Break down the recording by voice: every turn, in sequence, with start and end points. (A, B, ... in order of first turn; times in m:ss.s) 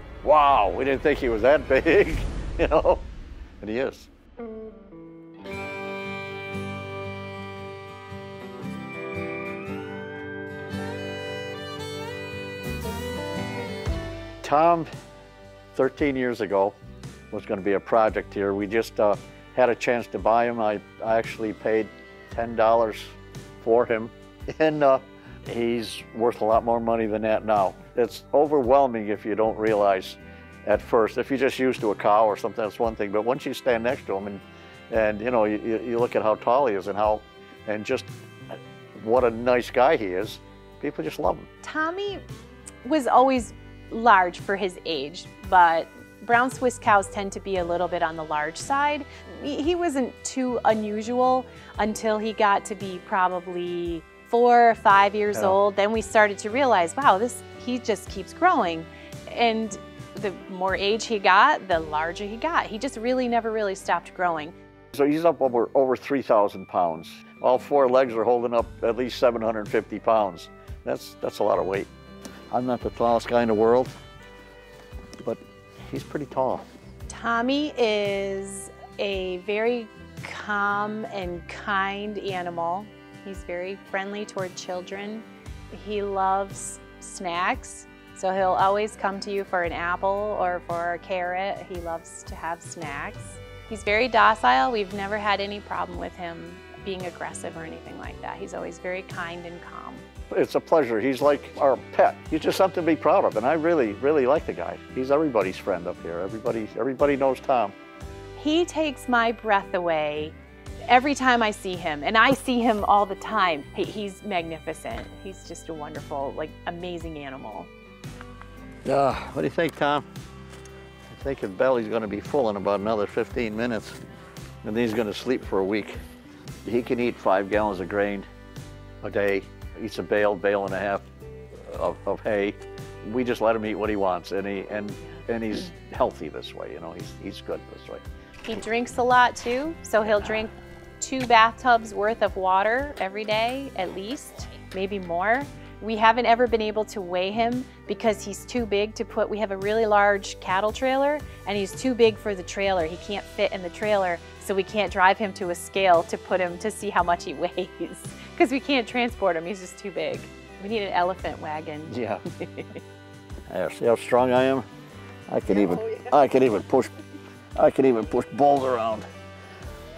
0:00.2-0:03.1 A
0:03.6-0:04.1 A
0:14.4-0:14.9 A
0:15.7-0:16.8 A
0:17.3-0:41.5 A
0:41.6-0:42.2 B
0:42.8-1:04.5 B
1:04.9-1:11.9 A
1:12.5-1:13.9 A
1:15.2-1:16.7 A
1:17.1-1:40.0 B
1:40.3-1:47.8 A
1:48.4-1:50.4 B
1:50.9-1:57.7 B
1:58.8-2:00.1 A
2:01.1-2:04.0 A
2:04.6-2:06.0 A
2:06.6-2:08.3 A
2:09.0-2:11.1 A
2:11.6-2:18.0 A
2:18.4-2:42.8 B
2:41.9-2:42.2 A
2:43.5-2:44.6 A
2:45.3-2:46.9 A
2:47.6-2:49.1 A